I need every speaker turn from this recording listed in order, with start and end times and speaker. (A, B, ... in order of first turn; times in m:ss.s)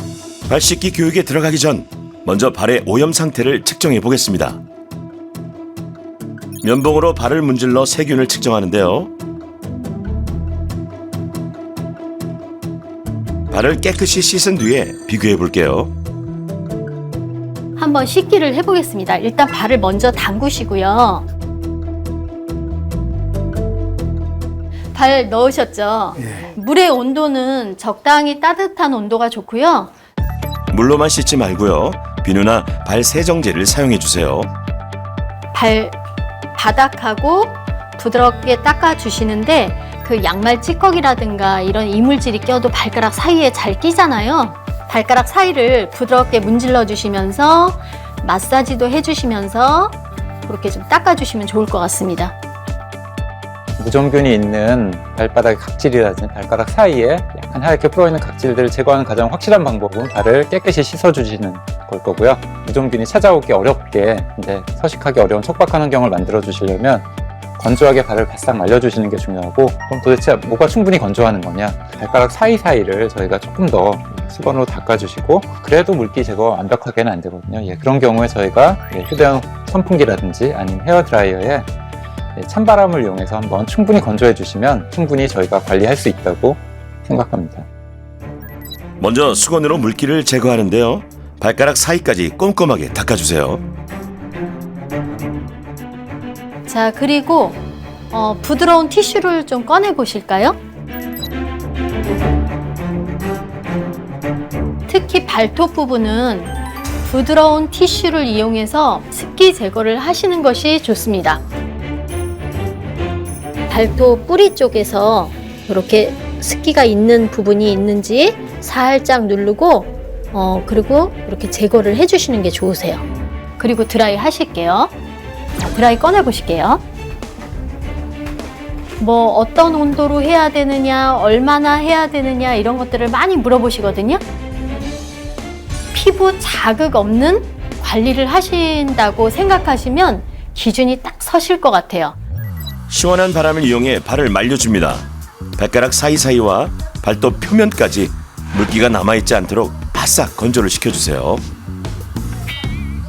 0:00.5-0:04.6 A
0:06.6-0:09.1 A
0:13.5-0:15.9 A
0:17.8-0:21.2 B
0:24.9-0:29.9 B
0:30.7-0:34.5 A
0:35.5-0:36.0 B
0:36.5-0:52.3 B
0:53.8-1:07.1 C
1:07.6-1:21.7 C
1:22.4-1:27.7 C
1:29.0-1:33.6 A
1:36.7-1:40.6 B
1:44.9-1:46.5 B
1:47.0-1:51.4 B
1:53.7-2:03.0 B
2:03.6-2:04.9 B
2:05.6-2:06.8 B
2:09.0-2:14.2 B
2:15.9-2:22.2 B
2:22.9-2:31.4 A